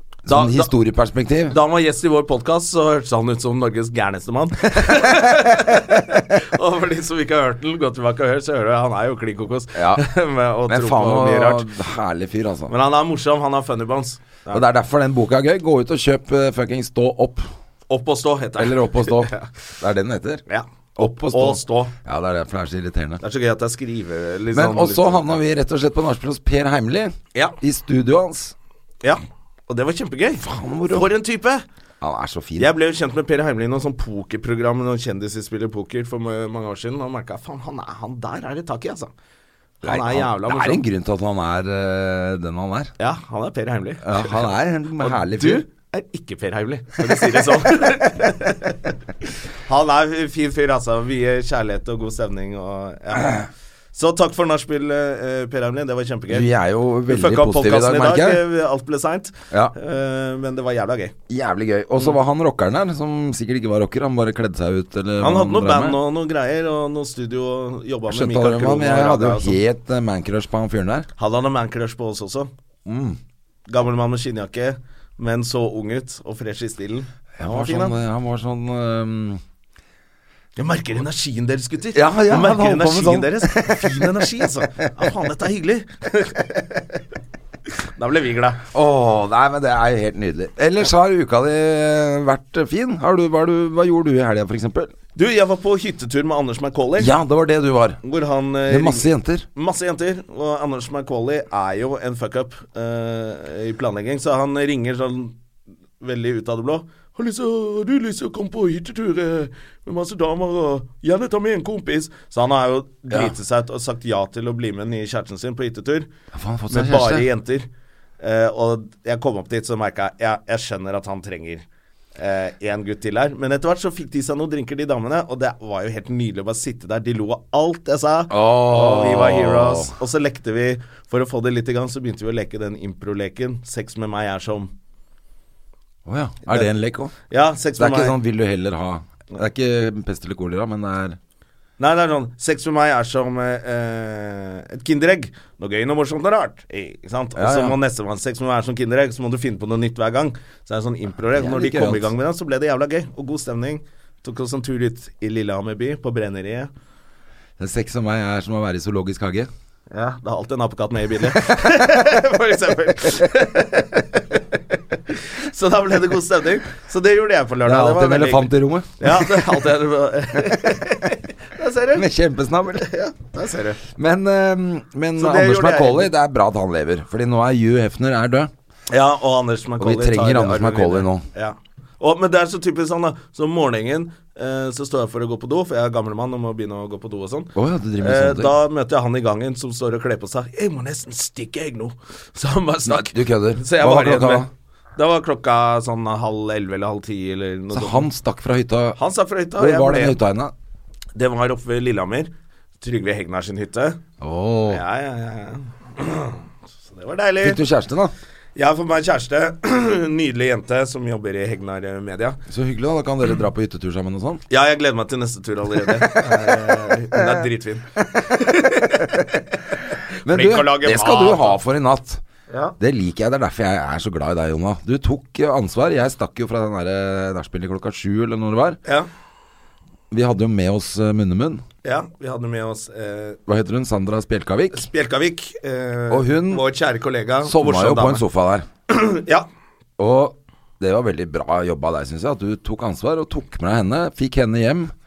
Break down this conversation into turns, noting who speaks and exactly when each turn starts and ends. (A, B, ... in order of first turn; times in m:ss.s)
0:00.3-0:01.6 A
0:00.3-0:00.7 B
0:01.5-0:11.7 B
0:09.8-0:10.0 A
0:10.7-0:12.7 A
0:12.7-0:14.6 B
0:14.5-0:17.5 A
0:17.9-0:19.5 B
0:18.6-0:20.4 A
0:20.5-0:21.9 B
0:21.0-0:23.2 A
0:23.2-0:25.3 B
0:24.5-0:28.6 A
0:29.0-0:31.6 B
0:30.4-0:31.1 A
0:32.0-0:32.7 A
0:32.6-0:39.1 B
0:39.8-0:40.8 B
0:39.8-0:42.9 A
0:43.0-0:44.3 B
0:44.0-0:45.6 A
0:45.0-0:49.0 B
0:49.7-0:56.5 B
0:56.3-0:58.4 A
0:57.1-1:01.2 B
1:01.3-1:06.0 A
1:05.2-1:09.6 B
1:08.1-1:11.1 A
1:11.2-1:12.5 B
1:12.8-1:13.2 A
1:13.7-1:18.0 B
1:17.4-1:19.4 A
1:20.6-1:27.0 B
1:21.9-1:24.2 A
1:24.8-1:25.1 A
1:28.0-1:28.6 B
1:28.7-1:34.9 A
1:35.2-1:37.1 B
1:37.0-1:38.0 A
1:38.0-1:45.3 B
1:38.7-1:39.5 A
1:46.0-1:56.1 B
1:56.3-1:57.3 A
1:56.7-1:57.7 B
1:58.2-2:01.6 B
2:02.2-2:14.7 B
2:08.3-2:10.0 A
2:16.1-2:17.1 A
2:16.4-2:16.7 B
2:17.3-2:18.2 B
2:17.8-2:21.2 A
2:21.8-2:36.7 B
2:27.4-2:27.8 A
2:31.4-2:32.1 A
2:37.6-2:39.5 A
2:39.9-2:52.1 B
2:47.6-2:49.6 A
2:52.0-2:52.9 A
2:52.7-2:53.8 B
2:53.9-2:58.5 A
2:55.2-2:56.1 B
2:58.9-3:18.1 B
2:59.8-3:01.2 A
3:07.6-3:08.6 A
3:12.9-3:14.5 A
3:17.7-3:19.0 A
3:19.0-3:20.2 B
3:19.6-3:20.5 A
3:21.2-3:22.3 B
3:22.8-3:24.0 B
3:24.2-3:24.8 A
3:24.7-3:27.6 B
3:27.4-3:28.1 A
3:28.6-3:32.4 B
3:32.5-3:34.4 A
3:34.5-3:41.6 B
3:35.9-3:37.5 A
3:38.0-3:38.3 A
3:40.2-3:42.2 A
3:42.5-3:42.8 B
3:42.8-3:48.8 A
3:50.1-3:51.6 A
3:51.8-3:53.4 B
3:53.5-3:54.9 A
3:54.7-3:58.2 B
3:56.1-3:56.6 A
3:57.4-3:58.7 A
3:58.9-3:59.5 B
4:00.0-4:04.9 A